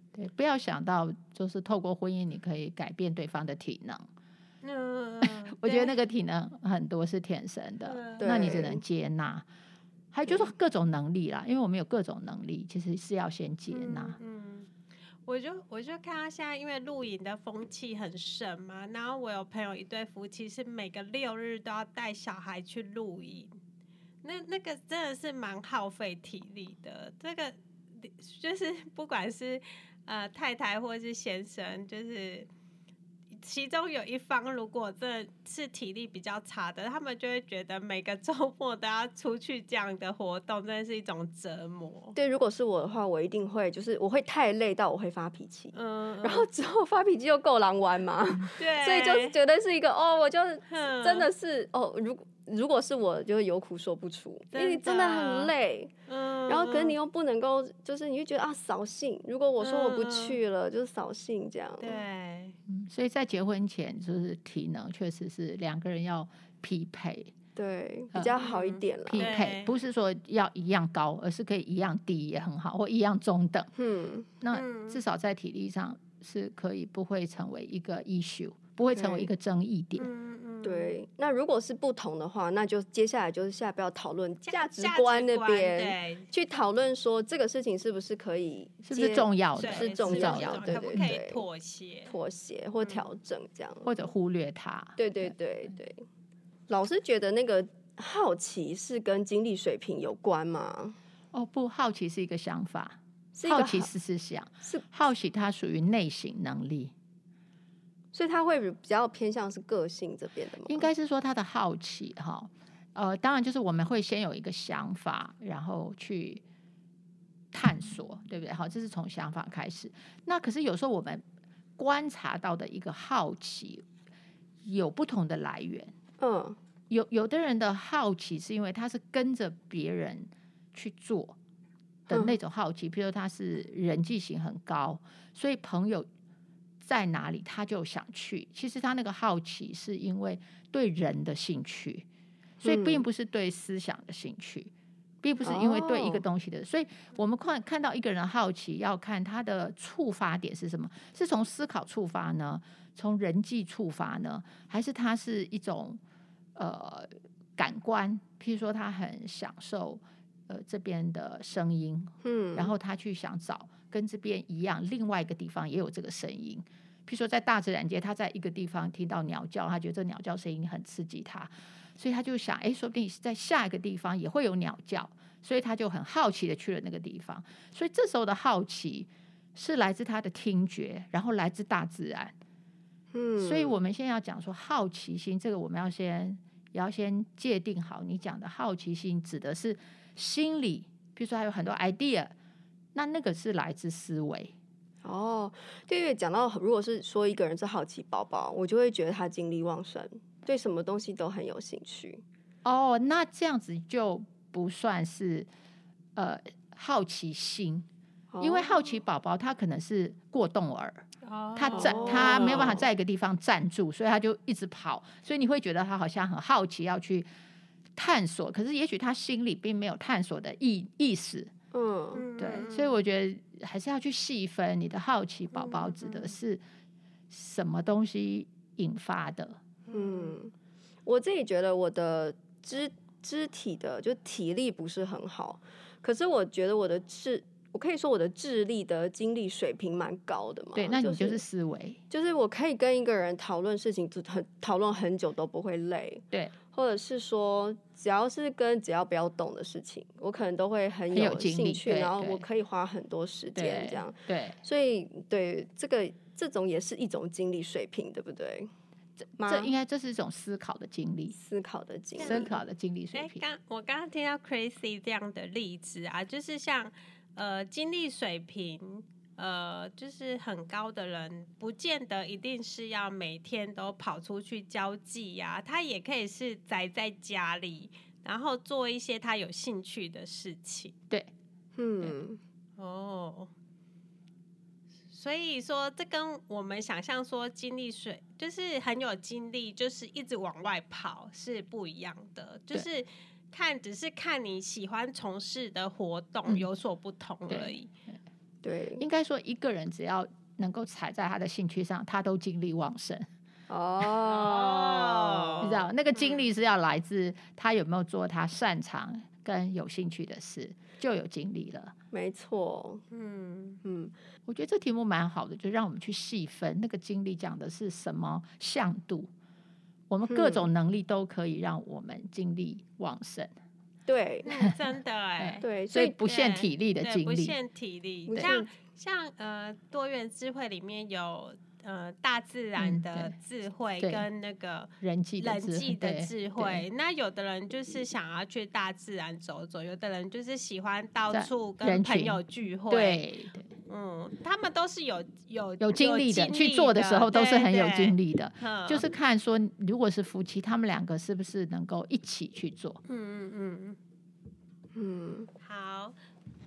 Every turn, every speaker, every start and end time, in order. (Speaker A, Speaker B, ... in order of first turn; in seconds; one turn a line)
Speaker A: 0.1-4.0
Speaker B: 4.6-5.9
Speaker A: 5.5-9.4
Speaker B: 7.8-8.5
Speaker C: 8.2-8.8
Speaker A: 10.1-14.2
Speaker B: 13.7-14.7
Speaker B: 15.2-23.5
Speaker B: 24.2-32.5
Speaker B: 33.4-42.1
Speaker C: 42.1-55.9
Speaker B: 45.7-46.5
Speaker B: 48.5-49.4
Speaker B: 50.7-51.3
Speaker B: 54.5-55.5
Speaker B: 56.1-57.0
Speaker C: 56.5-62.0
Speaker B: 59.6-60.4
Speaker B: 61.8-62.5
Speaker A: 62.7-67.3
Speaker C: 67.5-69.3
Speaker B: 68.4-69.7
Speaker A: 69.0-73.7
Speaker C: 73.8-74.3
Speaker A: 74.4-80.1
Speaker B: 74.5-75.0
Speaker C: 78.9-79.3
Speaker B: 80.0-80.9
Speaker C: 80.6-91.5
Speaker B: 84.4-86.3
Speaker A: 88.8-91.1
Speaker B: 89.5-92.1
Speaker C: 92.1-93.9
Speaker A: 93.8-95.3
Speaker C: 95.0-96.0
Speaker C: 96.7-101.0
Speaker A: 101.3-106.9
Speaker C: 103.3-103.9
Speaker C: 104.6-104.9
Speaker C: 108.1-110.9
Speaker A: 110.7-116.4
Speaker A: 117.5-121.2
Speaker A: 121.8-123.8
Speaker A: 124.6-125.9
Speaker C: 126.2-126.6
Speaker A: 126.9-131.4
Speaker A: 132.1-136.1
Speaker C: 132.1-132.4
Speaker A: 136.8-142.1
Speaker A: 142.6-144.7
Speaker C: 142.6-143.1
Speaker A: 145.2-156.0
Speaker C: 145.4-146.2
Speaker A: 156.6-182.3
Speaker C: 162.2-162.7
Speaker C: 183.1-183.8
Speaker A: 183.4-192.3
Speaker A: 192.9-194.5
Speaker C: 195.0-202.2
Speaker A: 202.6-205.5
Speaker A: 206.2-207.8
Speaker C: 208.3-208.7
Speaker A: 208.4-211.0
Speaker B: 211.2-212.7
Speaker A: 211.5-217.3
Speaker C: 211.7-212.8
Speaker A: 217.9-221.5
Speaker C: 221.7-222.2
Speaker B: 222.1-223.0
Speaker A: 222.4-226.6
Speaker C: 225.7-225.9
Speaker A: 227.3-229.6
Speaker C: 229.9-230.5
Speaker B: 229.9-230.3
Speaker C: 231.1-241.4
Speaker A: 240.7-242.0
Speaker C: 242.1-258.7
Speaker A: 251.1-252.4
Speaker A: 253.5-254.6
Speaker A: 259.2-261.4
Speaker C: 259.4-259.7
Speaker C: 261.3-262.5
Speaker B: 262.2-262.6
Speaker A: 262.2-263.4
Speaker B: 263.1-280.9
Speaker C: 281.8-282.4
Speaker B: 282.8-283.5
Speaker B: 285.1-297.9
Speaker A: 297.5-297.8
Speaker C: 298.6-299.0
Speaker A: 299.0-303.2
Speaker C: 303.7-305.7
Speaker B: 304.3-306.4
Speaker A: 305.6-311.9
Speaker C: 312.1-313.0
Speaker B: 313.1-313.8
Speaker C: 313.8-314.1
Speaker A: 314.4-319.3
Speaker A: 320.1-323.5
Speaker C: 320.3-320.7
Speaker C: 324.1-324.5
Speaker B: 324.4-325.7
Speaker A: 325.4-327.6
Speaker C: 325.6-326.2
Speaker B: 326.2-343.2
Speaker C: 328.3-328.7
Speaker A: 332.8-333.3
Speaker A: 334.0-334.3
Speaker A: 335.0-336.8
Speaker A: 341.3-343.7
Speaker B: 343.9-349.0
Speaker A: 345.8-353.0
Speaker B: 353.1-354.0
Speaker C: 354.9-355.5
Speaker B: 355.6-356.1